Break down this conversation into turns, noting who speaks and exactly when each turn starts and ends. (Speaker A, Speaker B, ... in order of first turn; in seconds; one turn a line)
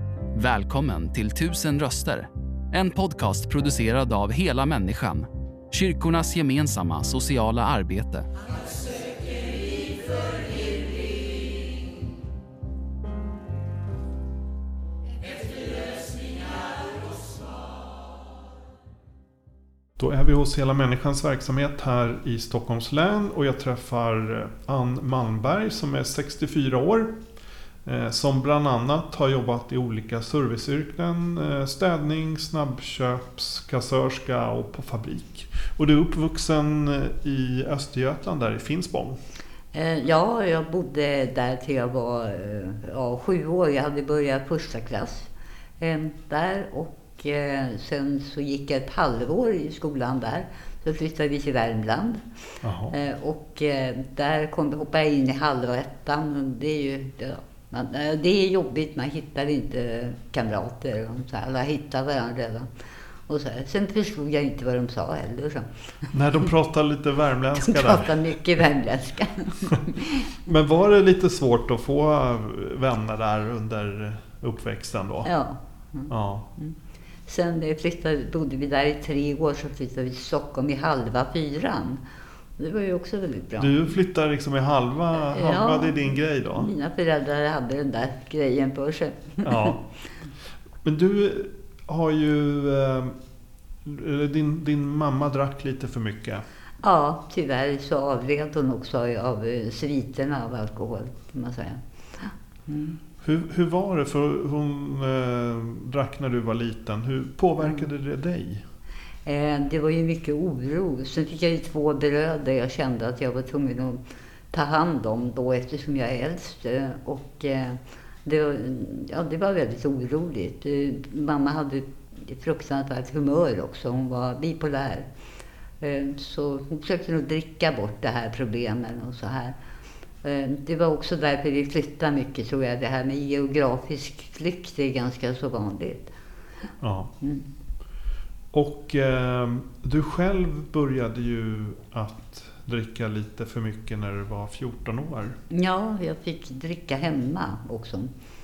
Speaker A: 0.3-8.3
Speaker B: 20.0-27.1
Speaker B: 27.8-39.2
Speaker C: 39.7-52.2
Speaker B: 52.6-53.0
Speaker C: 52.9-62.7
Speaker C: 63.3-66.1
Speaker B: 66.1-68.3
Speaker C: 67.6-70.3
Speaker B: 70.4-75.3
Speaker C: 75.2-82.0
Speaker B: 76.1-76.5
Speaker C: 82.6-83.9
Speaker B: 83.6-86.7
Speaker C: 85.1-89.7
Speaker B: 89.4-89.8
Speaker B: 90.8-93.1
Speaker B: 93.8-96.4
Speaker C: 96.8-103.0
Speaker B: 103.2-108.6
Speaker C: 109.2-114.0
Speaker C: 114.5-125.0
Speaker C: 125.8-129.6
Speaker C: 130.2-136.1
Speaker B: 136.8-137.1
Speaker C: 137.2-137.5
Speaker B: 138.5-145.4
Speaker C: 145.5-148.1